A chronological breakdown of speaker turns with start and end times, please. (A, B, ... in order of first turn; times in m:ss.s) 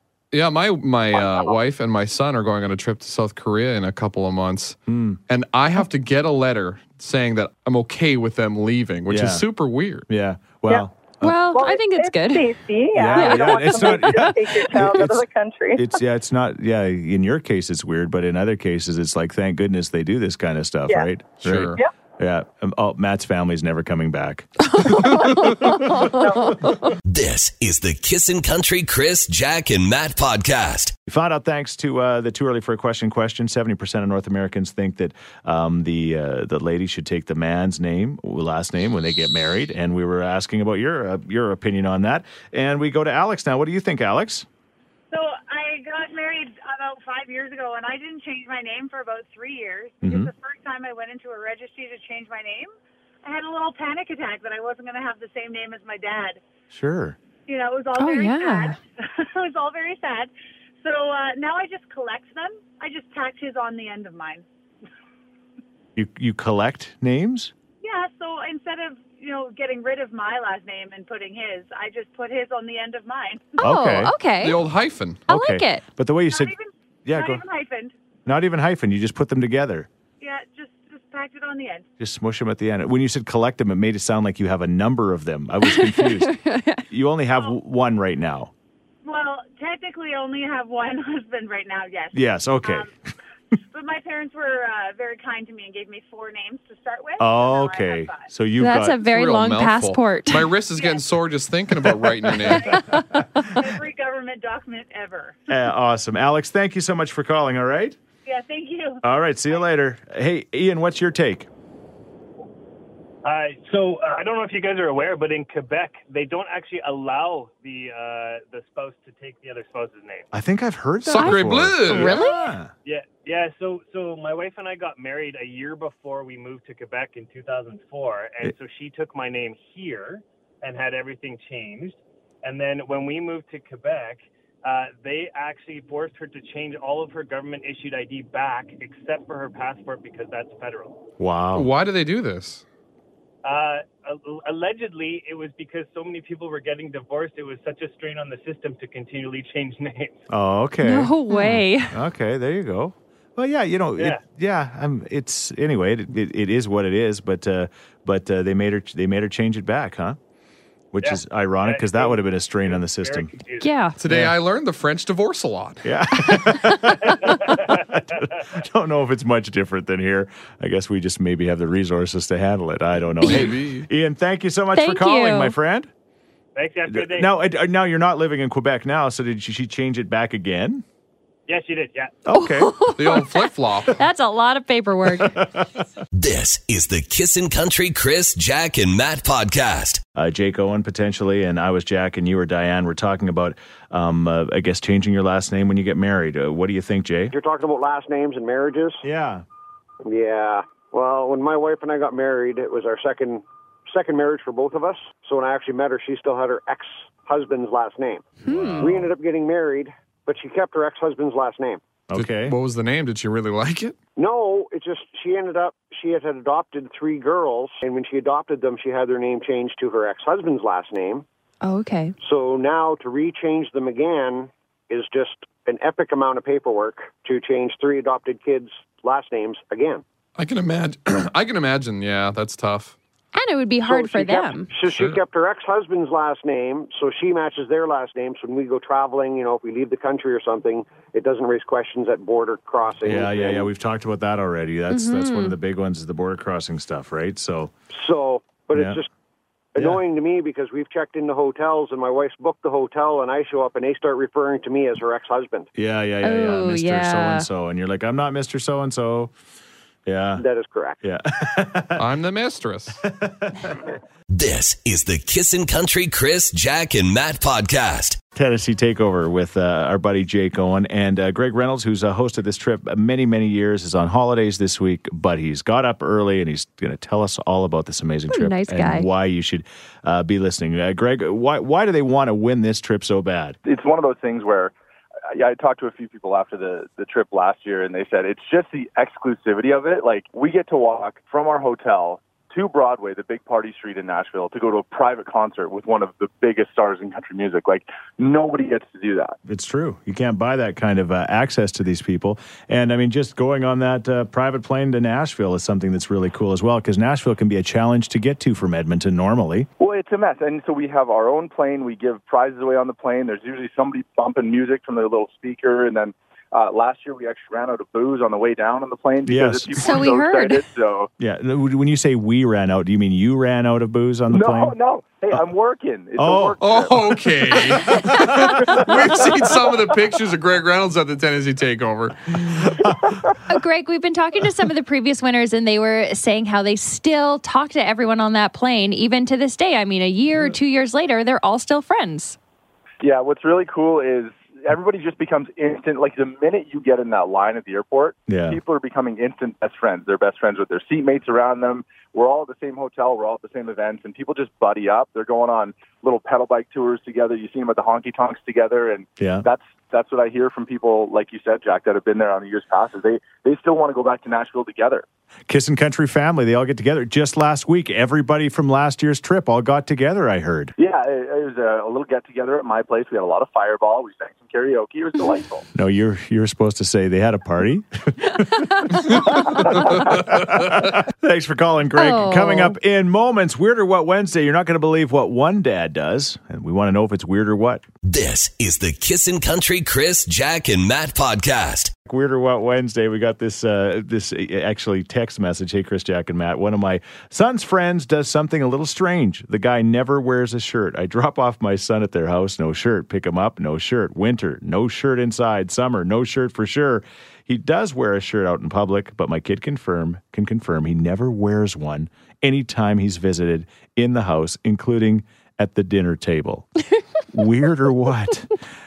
0:00.3-0:10.1 A
0:01.1-0:01.5 B
0:04.9-0:05.2 C
0:09.1-0:09.4 C
0:10.1-0:11.3 C
0:11.2-0:12.5 D
0:11.5-0:15.9 B
0:12.9-0:24.8 C
0:13.1-0:14.3 D
0:21.4-0:21.8 A
0:24.6-0:26.9 D
0:26.1-0:26.5 B
0:27.0-0:30.9 E
0:31.0-0:44.4 C
0:45.1-0:52.7 F
0:50.0-0:50.3 C
0:53.2-0:56.4 F
0:56.7-0:57.2 C
0:57.4-1:04.4 F
0:57.9-0:58.8 D
1:06.0-1:07.5 C
1:07.8-1:13.6 F
1:13.6-1:14.6 D
1:13.6-1:14.1 C
1:14.4-1:15.2 A
1:15.3-1:15.8 D
1:15.3-1:16.5 C
1:16.3-1:17.9 F
1:17.0-1:17.4 C
1:18.2-1:19.9 C
1:20.2-1:21.9 F
1:22.0-1:28.5 C
1:25.6-1:26.8 D
1:29.0-1:32.9 F
1:32.1-1:32.9 C
1:33.7-1:38.3 F
1:37.2-1:39.0 C
1:38.6-1:40.5 D
1:39.0-1:42.8 A
1:40.7-1:41.0 F
1:42.7-1:43.4 D
1:43.4-1:45.4 F
1:45.5-1:48.0 C
1:48.2-1:49.0 F
1:49.0-1:51.5 C
1:53.2-2:00.3 G
2:00.3-2:02.7 C
2:01.0-2:02.2 A
2:01.2-2:02.5 D
2:02.8-2:21.0 G
2:21.2-2:21.7 C
2:21.5-2:22.6 A
2:23.4-2:30.2 G
2:30.3-2:40.2 C
2:30.8-2:31.9 D
2:34.0-2:34.2 G
2:40.9-2:43.3 C
2:41.0-2:43.7 G
2:43.6-2:44.0 D
2:44.0-2:45.8 A
2:44.0-2:44.4 C
2:45.8-2:55.9 C
2:47.1-2:48.2 G
2:53.2-2:53.9 A
2:54.7-2:55.6 D
2:56.5-2:57.3 G
2:56.9-3:00.8 C
3:01.5-3:02.2 G
3:02.2-3:02.9 C
3:02.3-3:05.4 D
3:02.9-3:04.0 A
3:05.2-3:05.6 C
3:06.1-3:10.0 E
3:10.1-3:17.3 C
3:17.3-3:19.0 H
3:19.0-3:19.4 C
3:20.0-3:31.8 H
3:28.4-3:28.8 D
3:28.4-3:29.1 C
3:32.1-3:32.6 C
3:32.1-3:34.0 A
3:34.2-3:41.2 H
3:41.6-3:42.1 D
3:42.2-3:50.0 H
3:50.4-3:53.0 A
3:53.3-3:54.7 D
3:53.8-4:03.7 H
3:54.9-3:55.2 A
4:03.0-4:07.7 C
4:04.9-4:05.6 D
4:07.9-4:09.1 H
4:08.7-4:09.0 C
4:09.7-4:15.7 H
4:15.7-4:19.3 C
4:16.2-4:17.5 D
4:20.0-4:20.4 C
4:20.4-4:21.0 H
4:21.0-4:22.0 C
4:22.0-4:23.0 A
4:23.0-4:23.8 C
4:24.3-4:28.2 E
4:28.3-4:43.6 C
4:38.3-4:39.1 D
4:43.6-4:44.7 I
4:45.3-4:59.4 I
4:59.4-5:09.7 C
5:09.8-5:21.1 I
5:19.2-5:20.0 C
5:19.8-5:20.6 D
5:21.2-5:24.7 C
5:24.3-5:27.2 I
5:26.2-5:26.6 C
5:26.6-5:32.6 A
5:27.7-5:29.5 C
5:32.5-5:33.2 C
5:33.5-5:42.4 D
5:43.0-6:05.0 I
5:48.3-5:48.6 C
5:59.2-5:59.4 C
6:05.5-6:10.7 C
6:10.8-6:15.6 I
6:15.7-6:27.8 C
6:18.8-6:19.6 D
6:22.0-6:22.8 D
6:28.0-6:31.9 E
6:32.1-6:56.7 C
6:57.3-6:58.5 C